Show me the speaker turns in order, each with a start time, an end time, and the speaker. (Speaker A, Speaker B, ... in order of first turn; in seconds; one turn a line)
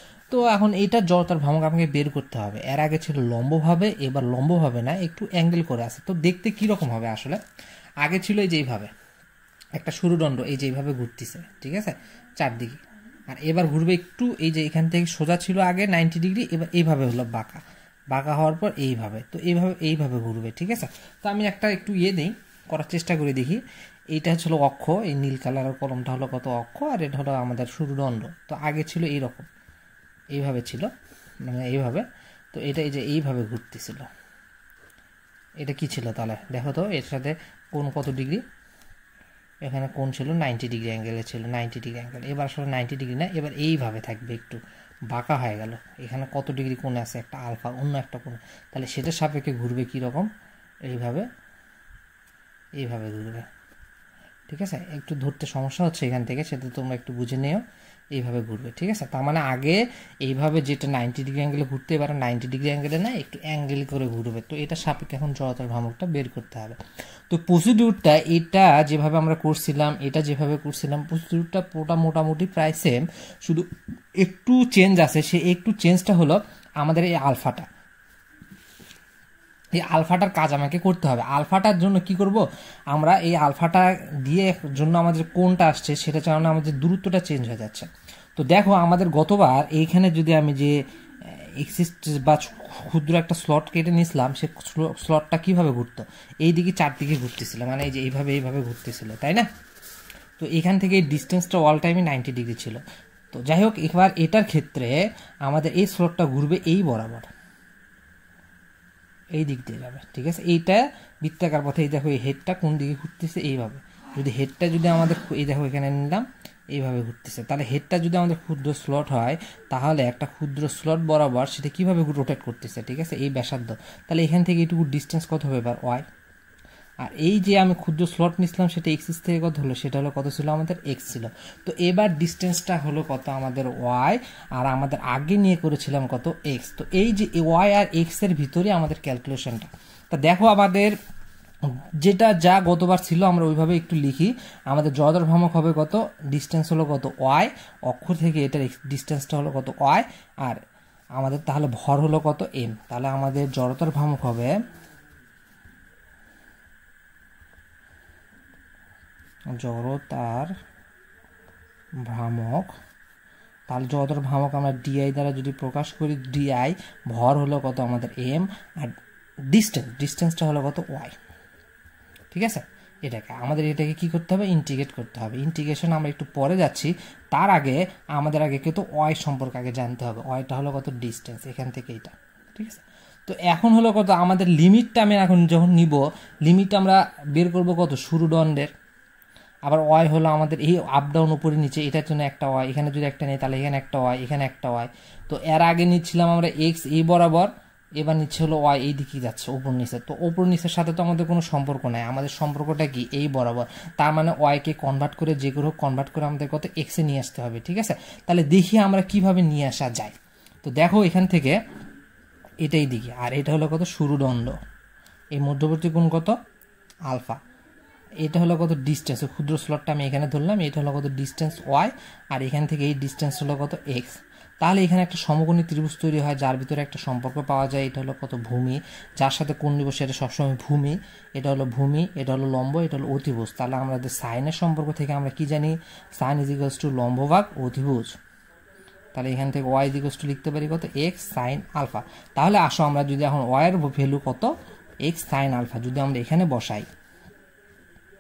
Speaker A: 0.3-7.4
Speaker A: 8.0-8.9
Speaker A: 9.8-23.6
Speaker A: 24.1-29.5
Speaker A: 30.3-30.9
Speaker A: 31.4-34.1
Speaker A: 35.6-38.4
Speaker A: 39.6-44.6
Speaker A: 45.1-50.3
Speaker A: 50.9-51.3
Speaker A: 52.8-53.5
Speaker A: 54.5-57.6
Speaker A: 58.1-66.8
Speaker A: 67.3-77.7
Speaker A: 79.8-99.5
Speaker A: 100.4-107.3
Speaker A: 109.3-126.0
Speaker A: 127.0-140.9
Speaker A: 141.7-150.6
Speaker A: 151.2-154.6
Speaker A: 159.6-160.5
Speaker A: 162.1-162.7
Speaker A: 163.7-169.0
Speaker A: 169.5-171.2
Speaker A: 172.3-188.7
Speaker A: 189.7-211.6
Speaker A: 212.6-214.6
Speaker A: 215.3-216.4
Speaker A: 217.1-217.4
Speaker A: 218.2-238.2
Speaker A: 239.1-244.5
Speaker A: 245.0-246.9